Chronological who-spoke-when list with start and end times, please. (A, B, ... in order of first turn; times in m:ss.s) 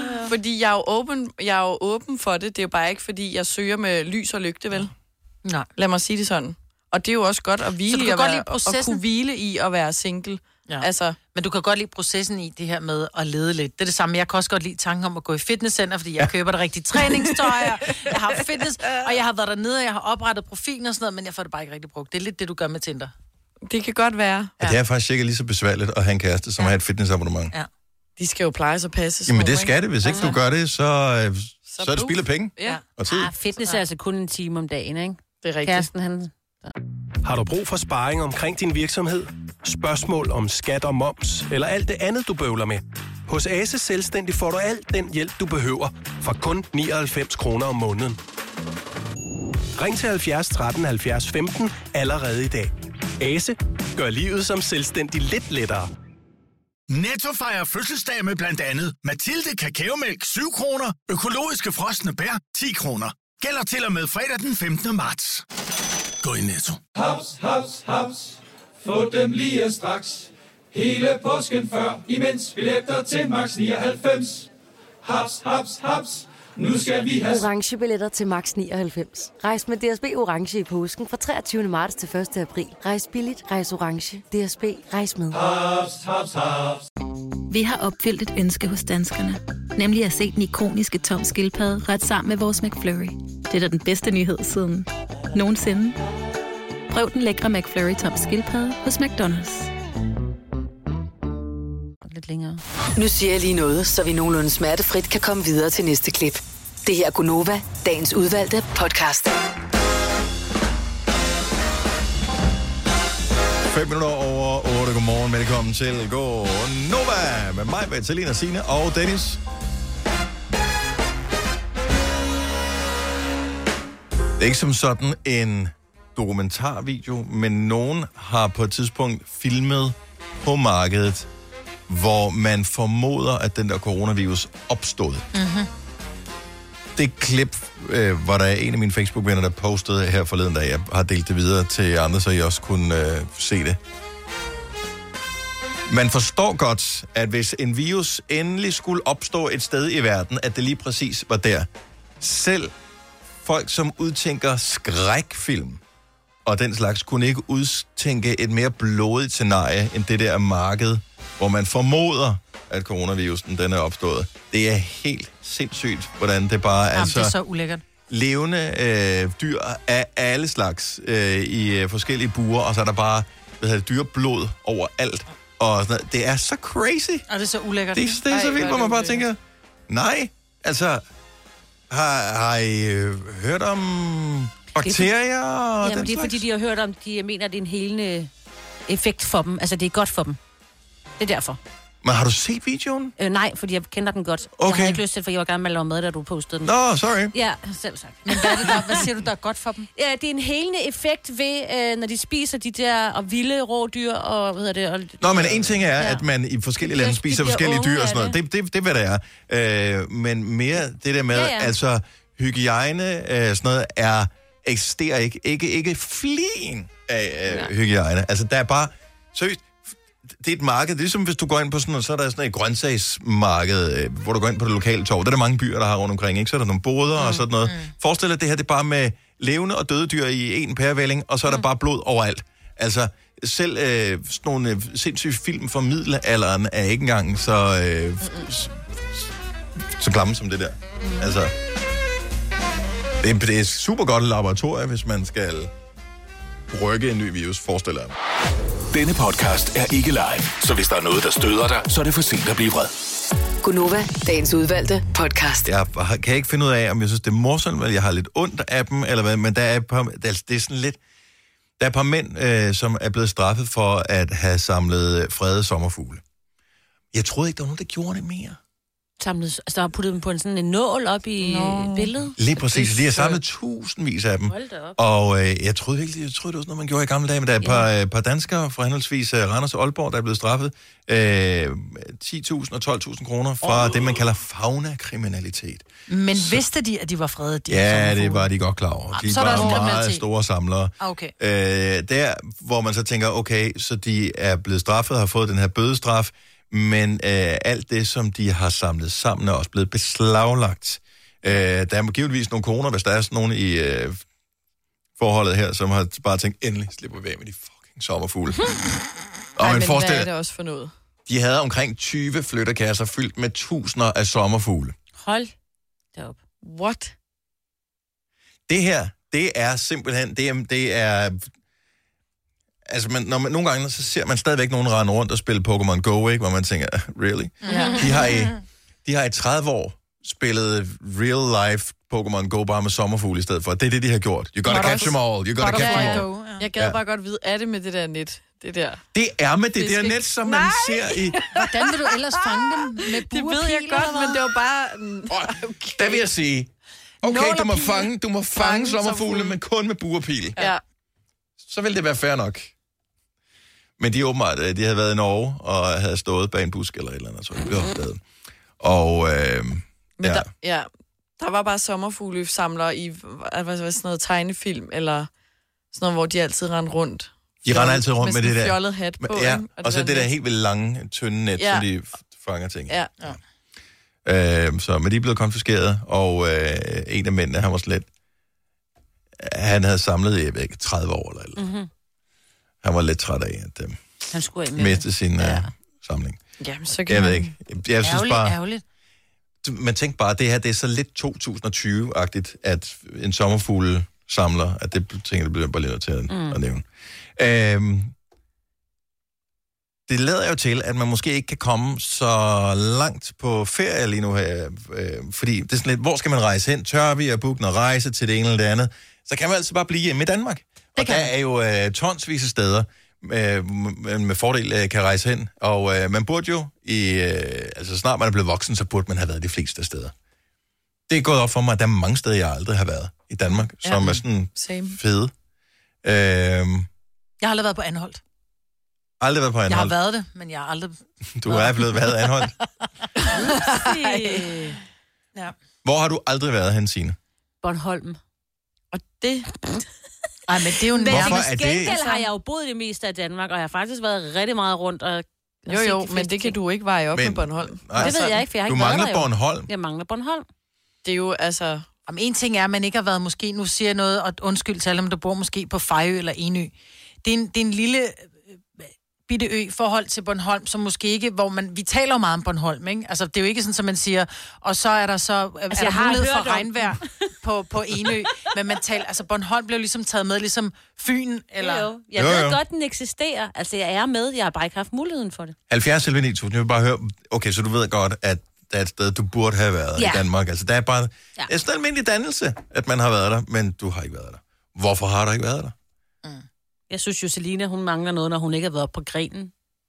0:00.2-0:04.9 A
0:05.8-0:11.2 A
0:07.9-0:09.0 B
0:10.7-0:23.1 B
0:23.6-0:24.5 A
0:24.6-0:27.5 C
0:28.2-0:29.8 A
0:29.3-0:33.3 C
0:30.0-0:30.4 D
0:31.7-0:32.8 A
0:33.0-0:36.7 D
0:35.4-0:35.9 A
0:37.2-0:48.2 E
0:49.8-0:55.9 E
0:56.9-1:05.4 F
1:06.2-1:06.8 F
1:07.0-1:14.5 G
1:15.0-1:17.4 G
1:17.2-1:25.4 H
1:25.3-1:26.8 G
1:27.5-1:36.0 I
1:36.9-1:39.7 I
1:42.0-1:42.6 D
1:43.0-1:49.3 J
1:53.7-1:59.4 C
2:04.4-2:11.3 C
2:11.9-2:15.2 C
2:15.3-2:15.7 B
2:17.0-2:23.8 C
2:25.9-2:31.7 C
2:32.2-2:32.7 C
2:33.4-2:35.8 C
2:36.4-2:47.3 C
2:46.9-2:47.8 B
2:48.1-2:57.2 C
2:57.3-2:58.2 B
2:57.9-3:01.0 C
2:58.3-2:59.3 A
3:01.9-3:06.4 C
3:04.8-3:05.1 D
3:05.8-3:08.3 D
3:08.9-3:10.4 D
3:11.2-3:11.6 D
3:12.0-3:13.1 C
3:13.2-3:16.7 D
3:14.6-3:15.0 C
3:16.6-3:17.3 C
3:17.3-3:19.0 D
3:18.2-3:19.9 B
3:19.9-3:26.2 D
3:25.2-3:59.3 C
3:26.8-3:28.4 D
3:31.3-3:31.7 D
3:47.6-3:47.9 B
3:58.2-3:58.5 A
3:59.9-4:01.5 C
4:01.0-4:01.3 D
4:03.2-4:05.7 C
4:06.7-4:08.1 C
4:08.9-4:12.9 K
4:13.6-4:15.7 J
4:15.6-4:21.0 C
4:21.8-4:26.2 C
4:27.1-4:28.6 C
4:29.2-4:33.4 D
4:31.4-4:32.1 A
4:32.4-4:46.6 C
4:34.5-4:35.0 D
4:37.6-4:37.9 D
4:43.6-4:44.0 D
4:46.1-4:48.5 B
4:47.7-5:04.2 C
4:49.1-4:50.2 B
4:51.0-4:51.3 B
5:05.2-5:08.6 C
5:09.6-5:10.3 C
5:09.6-5:10.9 A
5:11.2-5:14.9 C
5:15.2-5:15.5 D
5:16.6-5:17.1 A
5:18.7-5:21.5 C
5:22.9-5:37.0 C
5:27.6-5:28.4 B
5:34.6-5:39.0 A
5:34.7-5:36.6 B
5:39.1-5:41.4 C
5:39.8-5:46.2 A
5:41.5-5:44.4 B
5:45.3-5:46.7 C
5:47.2-5:50.6 C
5:47.2-5:48.1 B
5:48.6-5:49.6 A
5:51.6-5:52.7 C
5:54.0-5:58.2 C
5:58.8-6:00.5 C
6:00.2-6:05.3 A
6:05.9-6:10.3 A
6:07.6-6:13.3 C
6:11.6-6:11.8 A
6:14.2-6:18.1 C
6:19.4-6:21.6 C
6:21.6-6:21.9 D
6:22.8-6:24.0 C
6:24.3-6:25.7 D
6:24.7-6:26.4 C
6:26.6-6:27.5 A
6:27.1-6:28.6 C
6:28.0-6:28.8 B
6:29.6-6:36.8 C
6:36.3-6:36.6 D
6:37.4-6:38.1 C
6:40.1-7:00.1 C
6:51.0-6:51.3 B
7:01.1-7:05.3 C
7:03.8-7:05.0 A
7:06.0-7:06.9 C
7:07.4-7:08.2 B
7:09.2-7:09.9 C
7:09.7-7:12.0 B
7:11.4-7:12.5 C
7:13.2-7:13.5 B
7:13.2-7:14.8 A
7:13.7-7:14.5 D
7:15.8-7:17.2 C
7:17.6-7:18.2 D
7:18.9-7:19.5 A
7:20.5-7:21.4 B
7:20.9-7:26.6 D
7:21.1-7:22.0 C
7:21.8-7:22.2 A
7:25.7-7:28.2 A
7:27.1-7:29.7 C
7:28.0-7:30.5 D
7:31.0-7:31.8 A
7:32.1-7:36.7 B
7:37.2-7:51.9 B
7:45.7-7:47.1 D
7:51.6-7:55.6 D
7:52.1-7:52.6 C
7:55.7-8:05.7 C
8:06.9-8:09.5 D